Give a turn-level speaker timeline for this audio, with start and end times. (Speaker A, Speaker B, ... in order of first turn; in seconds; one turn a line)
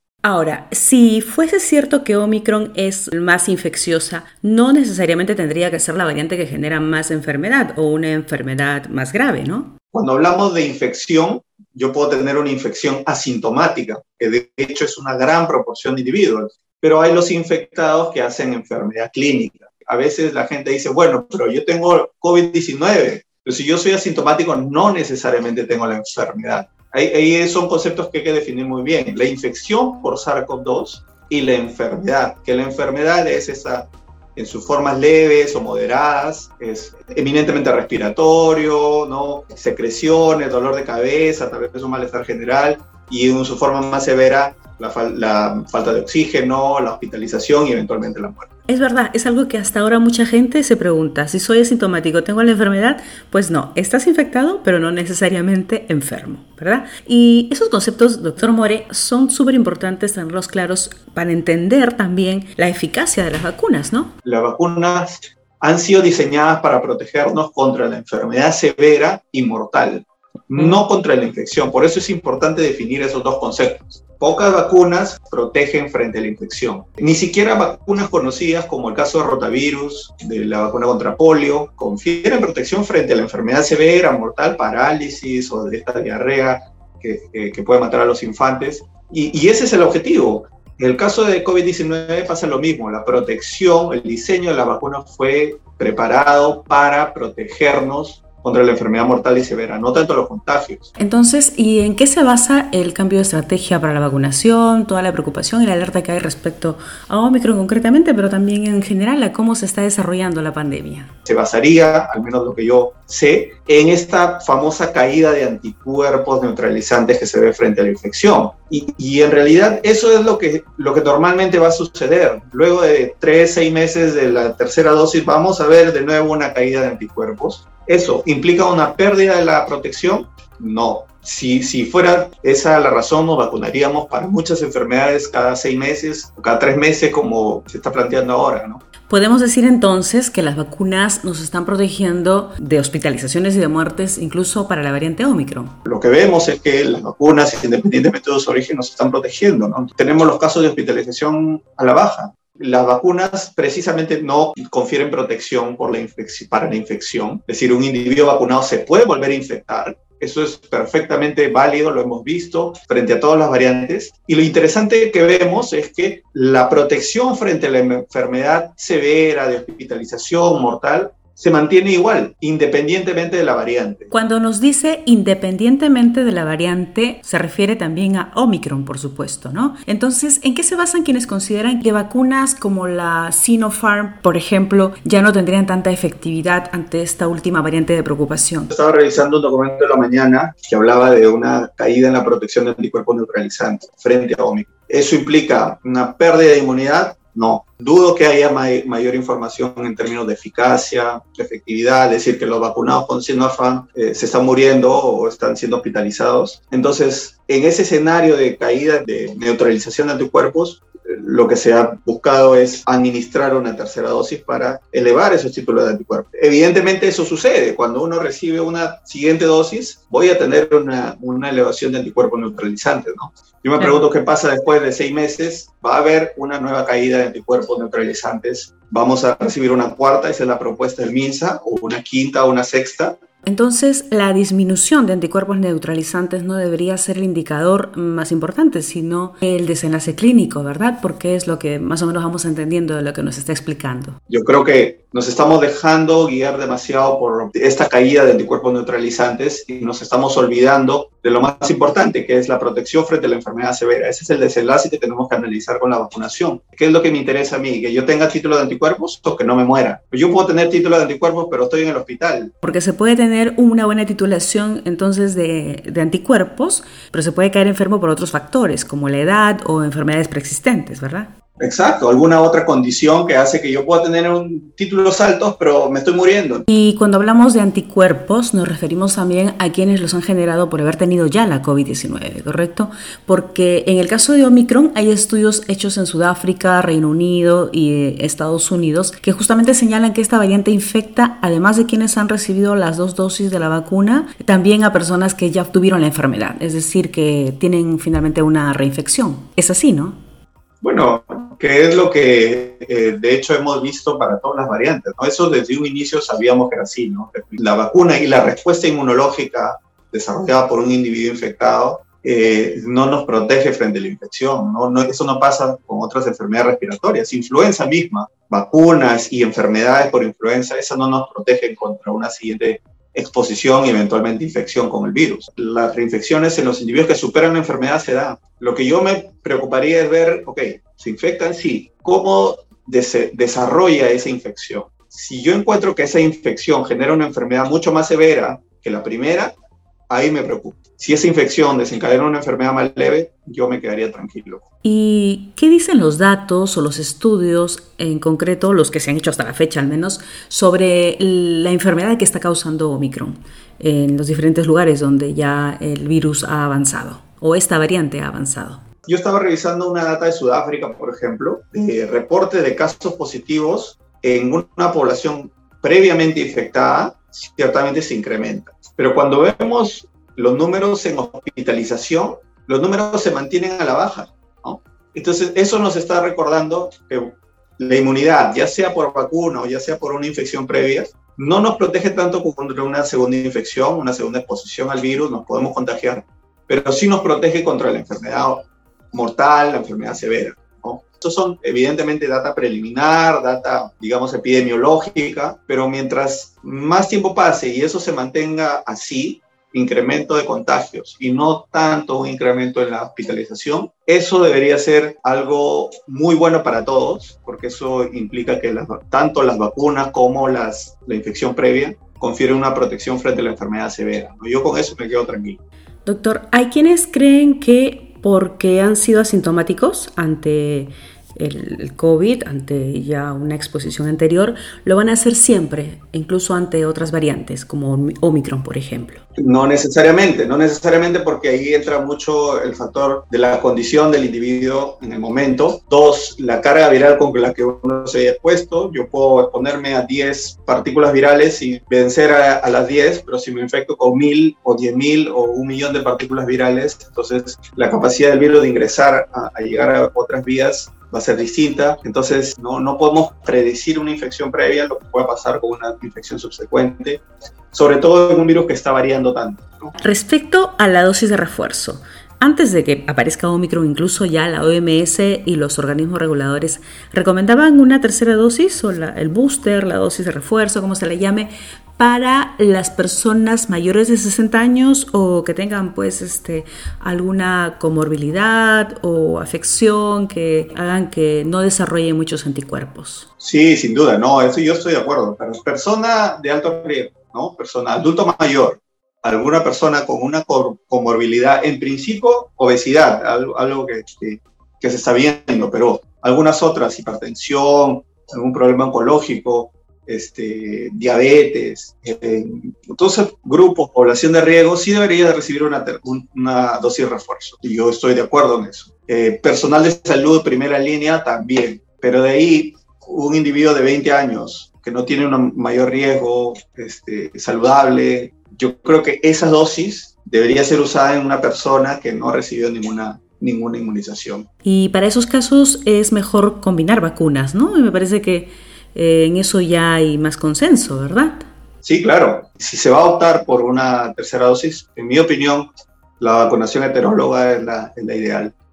Speaker A: 0.2-9.8
Speaker B: 9.9-48.5
Speaker A: 48.7-64.1
Speaker B: 64.2-100.9
Speaker A: 101.0-111.1
Speaker B: 111.2-138.8
Speaker A: 139.1-145.8
Speaker B: 145.8-174.1
Speaker A: 174.1-188.7
Speaker B: 188.7-233.2
Speaker A: 233.4-244.2
Speaker B: 244.3-262.5
Speaker A: 262.6-271.3
Speaker B: 271.6-276.6
Speaker A: 276.7-300.2
Speaker B: 300.8-339.5
Speaker B: 340.1-344.6
Speaker A: 344.8-358.8
Speaker B: 359.1-415.6
Speaker A: 416.1-429.2
Speaker B: 429.4-459.9
Speaker A: 460.0-483.2
Speaker B: 483.4-524.5
Speaker A: 524.6-531.5
Speaker B: 531.8-535.7
Speaker B: 536.2-538.5